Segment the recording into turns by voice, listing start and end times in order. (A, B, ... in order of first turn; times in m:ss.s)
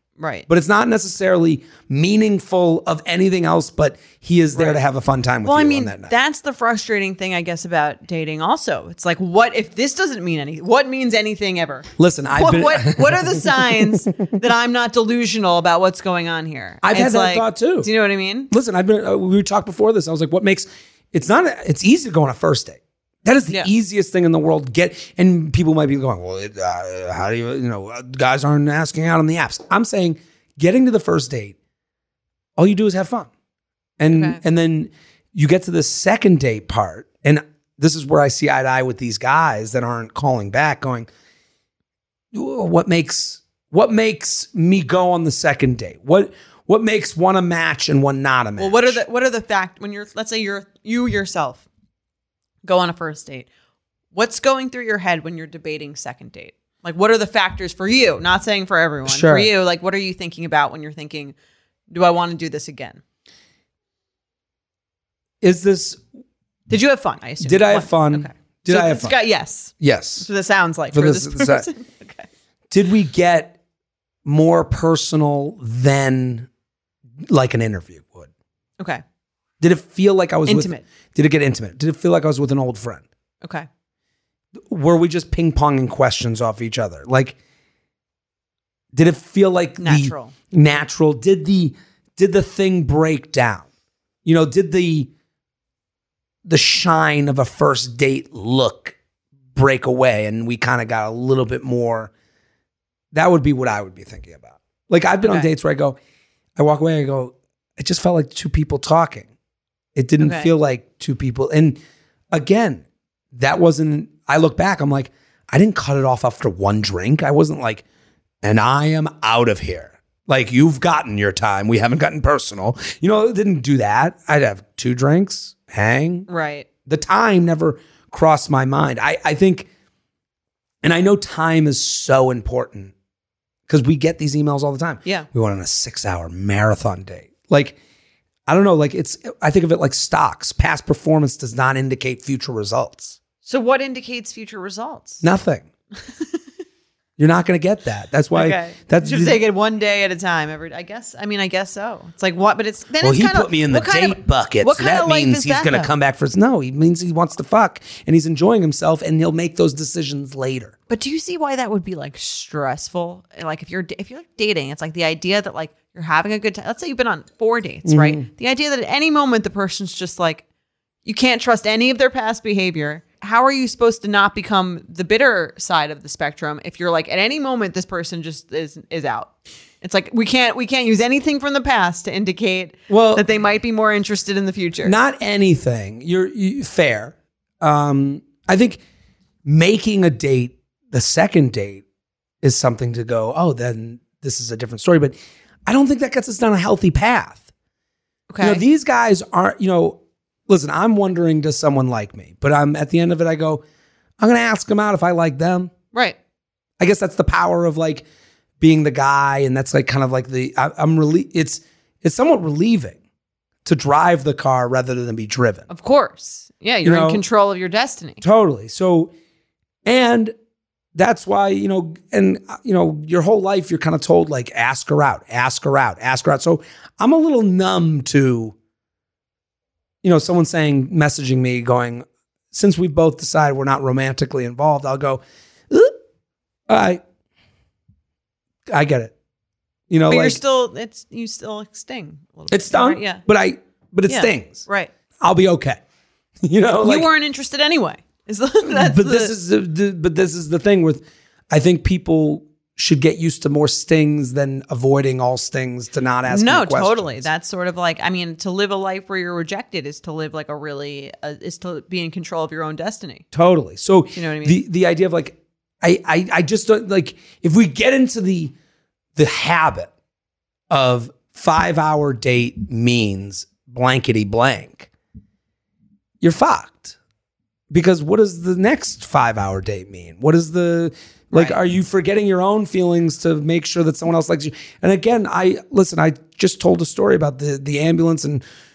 0:00.2-0:00.4 A
0:00.5-0:06.1 B
0:04.5-0:04.8 A
0:05.4-0:18.5 A
0:12.0-0:14.2 B
0:16.8-0:17.9 B
0:18.5-0:31.6 B
0:32.6-0:33.3 B
0:34.0-0:41.1 B
0:34.1-0:34.4 A
0:42.3-0:49.0 B
0:48.6-0:51.6 A
0:52.6-0:53.5 A
0:54.1-1:01.3 A
0:59.1-0:59.5 B
1:01.9-1:03.0 A
1:05.4-1:06.0 B
1:06.7-1:12.3 A
1:07.4-1:09.2 B
1:09.8-1:10.3 B
1:10.9-1:11.7 B
1:12.7-1:13.6 B
1:14.2-1:16.5 B
1:17.3-1:18.3 B
1:19.6-1:23.0 B
1:20.4-1:20.8 A
1:23.4-1:23.7 A
1:24.6-1:27.4 B
1:28.9-1:33.7 B
1:29.8-1:30.3 A
1:34.2-1:35.1 B
1:36.4-1:39.0 B
1:39.5-1:42.1 B
1:43.1-1:46.0 B
1:46.6-1:49.3 B
1:50.0-1:51.8 B
1:50.2-1:50.5 A
1:52.3-1:57.8 B
1:58.4-2:06.3 B
2:06.3-2:06.7 A
2:06.9-2:09.7 B
2:10.8-2:12.9 B
2:13.7-2:17.8 B
2:18.5-2:23.2 B
2:23.4-2:25.2 A
2:25.2-2:25.6 B
2:27.2-2:29.4 B
2:28.3-2:35.9 A
2:33.0-2:40.7 B
2:40.9-2:50.4 A
2:47.8-2:48.2 B
2:51.0-2:59.3 A
2:59.8-3:04.9 A
3:02.9-3:03.2 B
3:04.8-3:08.8 B
3:09.4-3:11.8 B
3:12.4-3:17.5 B
3:18.3-3:18.6 A
3:18.4-3:23.6 B
3:24.2-3:25.7 B
3:26.8-3:28.0 B
3:28.6-3:33.0 B
3:33.6-3:35.6 B
3:35.7-3:38.2 A
3:36.8-3:37.2 B
3:38.2-3:39.1 B
3:39.8-3:40.3 B
3:40.9-3:48.6 B
3:50.0-3:56.0 B
3:56.7-3:57.0 B
3:58.7-3:59.1 B
3:59.9-4:00.4 B
4:00.1-4:03.2 A
4:02.5-4:04.6 B
4:04.1-4:04.9 A
4:05.2-4:05.8 B
4:06.4-4:07.1 B
4:06.8-4:09.3 A
4:08.6-4:17.2 B
4:16.3-4:23.2 A
4:23.3-4:28.5 B
4:24.2-4:24.6 A
4:29.2-4:29.9 B
4:30.7-4:34.9 B
4:36.2-4:37.0 B
4:37.7-4:48.4 B
4:41.3-4:41.6 A